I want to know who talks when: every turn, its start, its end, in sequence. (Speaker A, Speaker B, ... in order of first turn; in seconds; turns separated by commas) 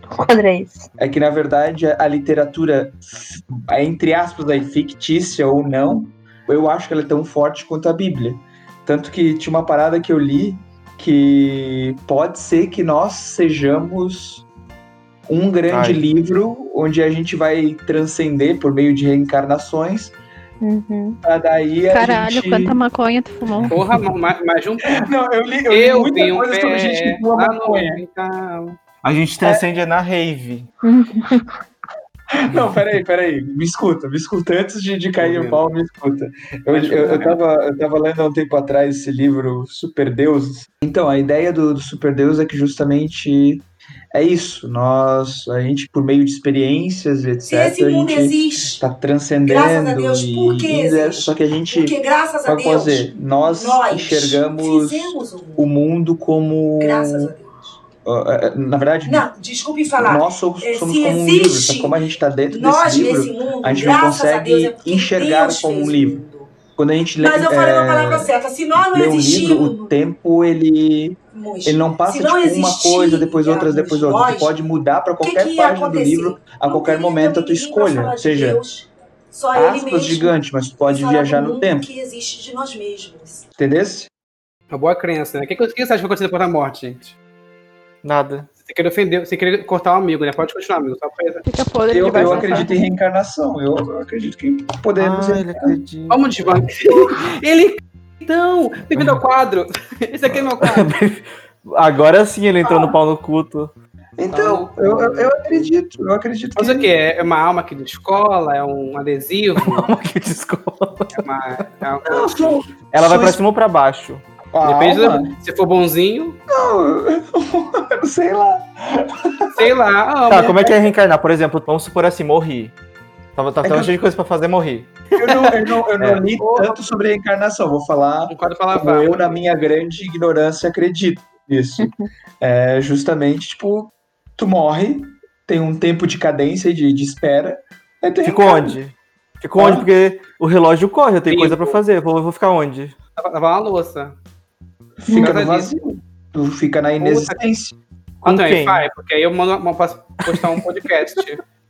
Speaker A: 0.1-0.9, Speaker B: 1.0-14.4, Speaker B: 15.3-20.2, Speaker C: 15.7-16.0, Speaker A: 20.6-21.2, Speaker B: 21.2-22.8, Speaker D: 21.9-23.8, Speaker E: 23.7-25.1, Speaker B: 25.0-28.0, Speaker E: 25.7-28.8, Speaker C: 29.0-30.7, Speaker A: 30.8-31.5, Speaker B: 32.5-57.3, Speaker E: 35.2-35.6, Speaker E: 36.7-37.4, Speaker F: 47.5-48.8, Speaker F: 49.4-55.7, Speaker F: 56.8-57.8, Speaker B: 58.0-59.3, Speaker F: 59.0-66.5, Speaker B: 60.0-66.2, Speaker B: 66.8-68.3, Speaker F: 67.2-69.9, Speaker B: 68.9-78.6, Speaker F: 71.3-74.6, Speaker F: 75.2-83.5, Speaker B: 79.5-81.9, Speaker B: 83.6-84.1, Speaker E: 84.7-87.1, Speaker C: 88.0-88.5, Speaker E: 88.6-91.5, Speaker D: 91.5-92.8, Speaker B: 91.9-95.8, Speaker C: 95.0-96.6, Speaker E: 96.1-101.0, Speaker B: 99.0-99.2, Speaker C: 100.6-103.7, Speaker B: 102.7-103.0, Speaker B: 104.2-106.9, Speaker E: 104.3-105.7, Speaker E: 106.6-109.9, Speaker C: 109.6-111.2, Speaker E: 111.1-112.7, Speaker B: 112.1-113.4, Speaker C: 112.9-114.2, Speaker B: 114.5-115.3, Speaker E: 114.6-116.4, Speaker B: 116.5-119.7, Speaker E: 119.5-120.9, Speaker C: 120.3-122.7, Speaker C: 123.4-125.0, Speaker B: 123.6-124.0, Speaker B: 125.2-138.8, Speaker C: 126.0-126.7, Speaker E: 128.3-129.4, Speaker A: 131.8-132.1, Speaker C: 138.2-142.9, Speaker B: 139.6-139.9, Speaker E: 141.3-141.8, Speaker E: 143.2-144.2, Speaker B: 145.1-147.8, Speaker E: 145.1-145.7, Speaker E: 147.0-147.4, Speaker C: 148.2-148.9, Speaker E: 148.2-151.4, Speaker C: 150.3-150.6